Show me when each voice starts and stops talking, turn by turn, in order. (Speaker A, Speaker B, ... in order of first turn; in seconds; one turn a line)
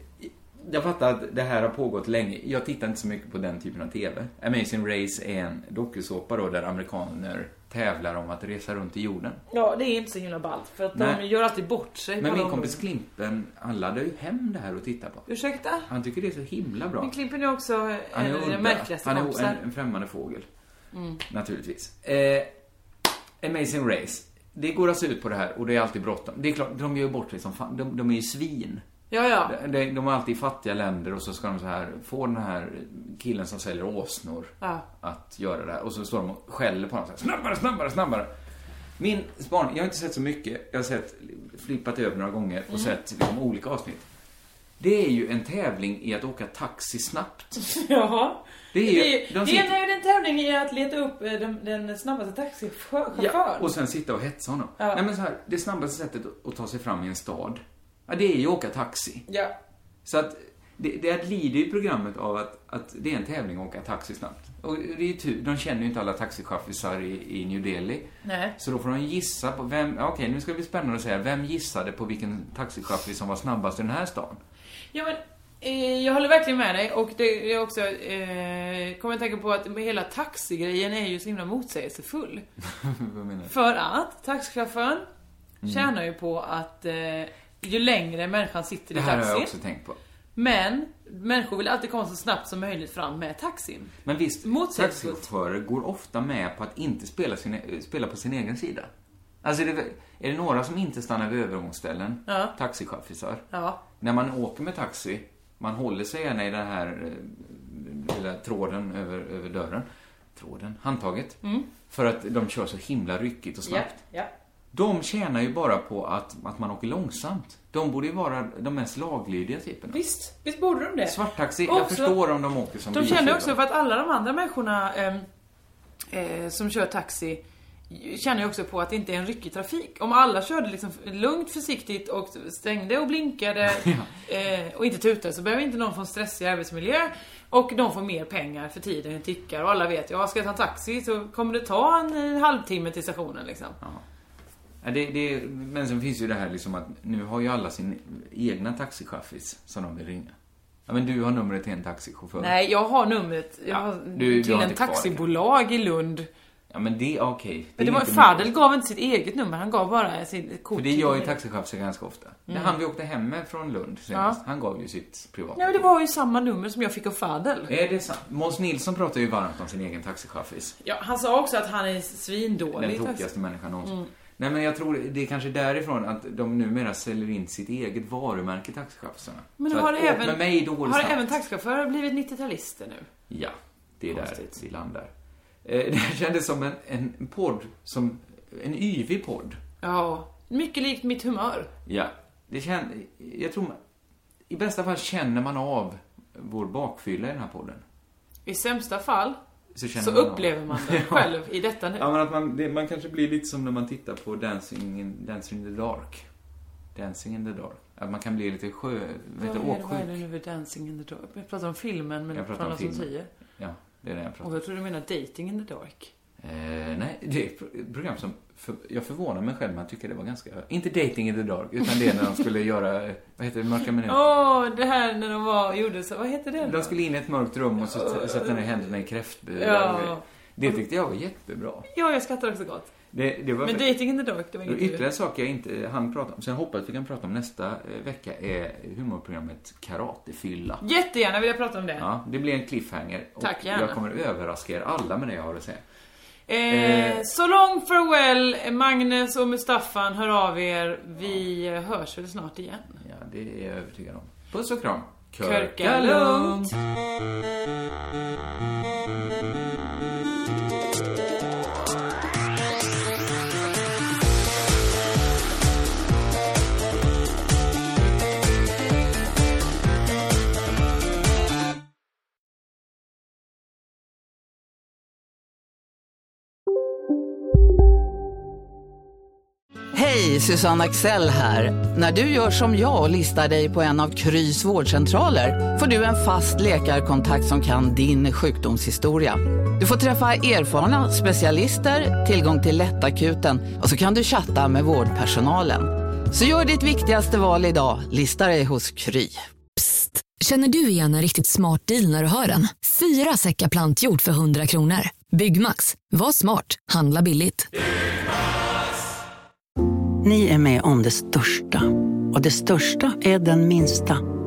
Speaker A: 0.2-9.4
Speaker B: 9.5-12.8
Speaker A: 10.9-11.2
Speaker A: 12.2-15.2
Speaker B: 15.3-15.9
Speaker A: 15.9-17.1
Speaker B: 17.0-19.6
Speaker A: 18.1-20.5
Speaker B: 20.9-21.2
Speaker A: 21.3-22.5
Speaker A: 23.4-28.8
Speaker B: 29.1-29.5
Speaker A: 29.4-38.3
Speaker A: 39.0-44.0
Speaker A: 44.8-47.5
Speaker B: 47.6-53.7
Speaker A: 48.7-49.7
Speaker A: 53.1-59.2
Speaker B: 59.3-59.5
Speaker A: 60.0-74.4
Speaker B: 68.2-68.5
Speaker B: 74.9-82.5
Speaker A: 82.6-83.5
Speaker B: 83.5-85.1
Speaker A: 85.6-85.9
Speaker B: 85.7-89.5
Speaker A: 88.9-90.0
Speaker B: 90.3-95.2
Speaker A: 94.0-98.9
Speaker A: 99.4-114.0
Speaker B: 102.3-102.5
Speaker B: 103.5-103.8
Speaker B: 113.6-114.3
Speaker A: 114.7-120.0
Speaker B: 119.9-122.2
Speaker A: 121.0-123.5
Speaker B: 122.9-125.2
Speaker B: 126.1-143.8
Speaker A: 133.7-134.1
Speaker A: 144.8-150.3
Speaker A: 150.9-152.5
Speaker B: 152.4-156.3
Speaker A: 153.7-155.2
Speaker A: 156.7-158.5
Speaker B: 157.8-161.3
Speaker A: 160.7-165.8
Speaker B: 162.5-162.7
Speaker B: 164.1-164.4
Speaker B: 165.6-167.7
Speaker A: 167.7-170.8
Speaker B: 170.8-173.3
Speaker A: 172.7-181.3
Speaker B: 173.8-174.1
Speaker B: 179.6-183.1
Speaker A: 183.3-185.1
Speaker B: 184.1-184.5
Speaker A: 185.6-189.6
Speaker B: 189.8-191.7
Speaker A: 191.8-193.8
Speaker A: 194.5-197.8
Speaker B: 198.4-199.4
Speaker A: 199.7-201.4
Speaker B: 199.9-202.1
Speaker A: 201.9-206.3
Speaker A: 206.9-210.2
Speaker B: 209.4-213.3
Speaker A: 212.3-214.5
Speaker B: 214.4-216.1
Speaker A: 216.4-224.3
Speaker B: 224.1-226.9
Speaker A: 226.6-231.9
Speaker B: 227.9-228.5
Speaker B: 229.6-230.2
Speaker B: 231.9-232.9
Speaker A: 233.1-233.9
Speaker B: 233.6-235.0
Speaker A: 234.7-240.8
Speaker B: 240.8-242.1
Speaker A: 242.0-245.8
Speaker B: 243.4-244.0
Speaker B: 246.5-253.0
Speaker A: 246.7-247.2
Speaker A: 253.0-256.7
Speaker B: 255.4-256.7
Speaker C: 279.9-299.4
Speaker D: 299.8-307.7
Speaker E: 310.2-314.2